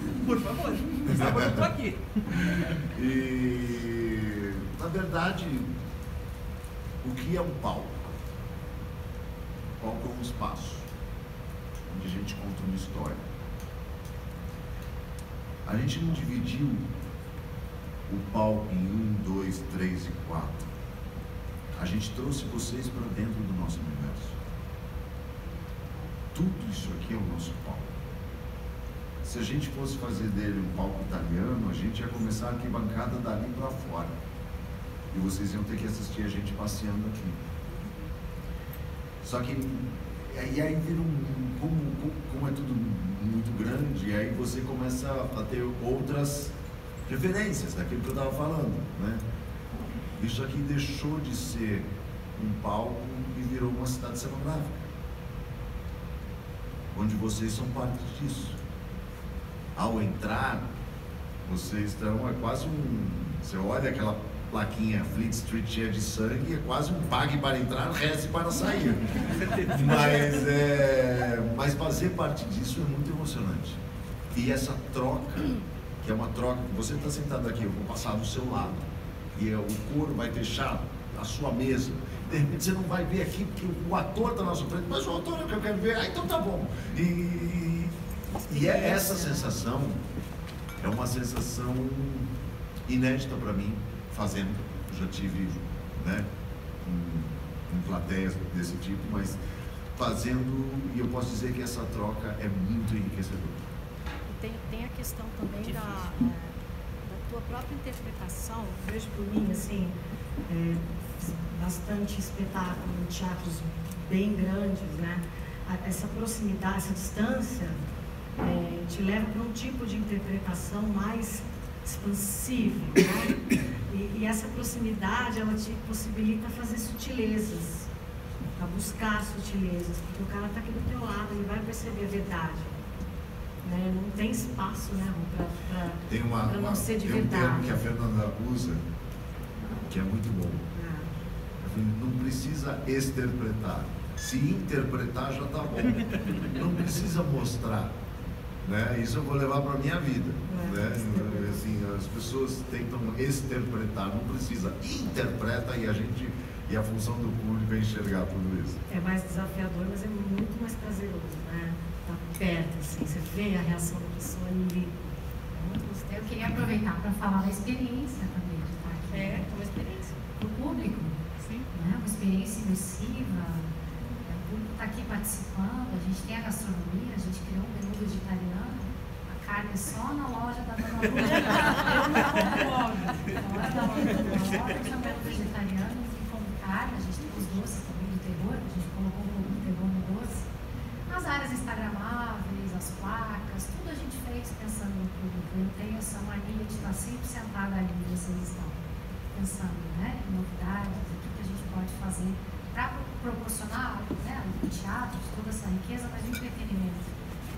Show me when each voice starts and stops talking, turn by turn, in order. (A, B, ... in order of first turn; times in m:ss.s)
0:00.2-0:02.2 A
0:01.0-0:01.6 B
0:02.3-0:05.7 B
0:07.0-0:08.0 B
0:09.8-0:10.9 B
0:11.9-0:13.2 B
0:15.6-0:16.9 B
0:18.1-0:20.7 B
0:21.7-0:24.4 B
0:26.3-0:27.9 B
0:29.2-0:34.2 B
0:35.1-0:37.4 B
0:39.2-0:46.5 B
0:47.0-0:49.2 B
0:50.2-0:54.8 B
0:56.9-0:58.6 B
0:59.7-1:00.7 B
1:01.4-1:13.8 B
1:14.3-1:30.0 B
1:28.5-1:29.5 C
1:30.8-1:32.3 B
1:32.9-1:36.3 B
1:36.8-1:39.4 B
1:40.0-1:43.6 B
1:44.3-1:49.9 C
1:50.5-1:57.8 C
1:58.4-2:07.9 C
2:08.6-2:12.8 C
2:13.6-2:17.8 C
2:16.1-2:18.8 B
2:19.9-2:20.6 B
2:20.7-2:21.1 C
2:21.6-2:27.9 B
2:28.6-2:38.8 B
2:30.5-2:31.6 C
2:38.9-2:46.0 C
2:45.8-2:49.5 D
2:49.1-2:50.2 C
2:50.4-2:51.2 D
2:51.7-2:53.7 D
2:54.2-3:10.5 D
3:11.1-3:18.8 D
3:19.3-3:27.1 D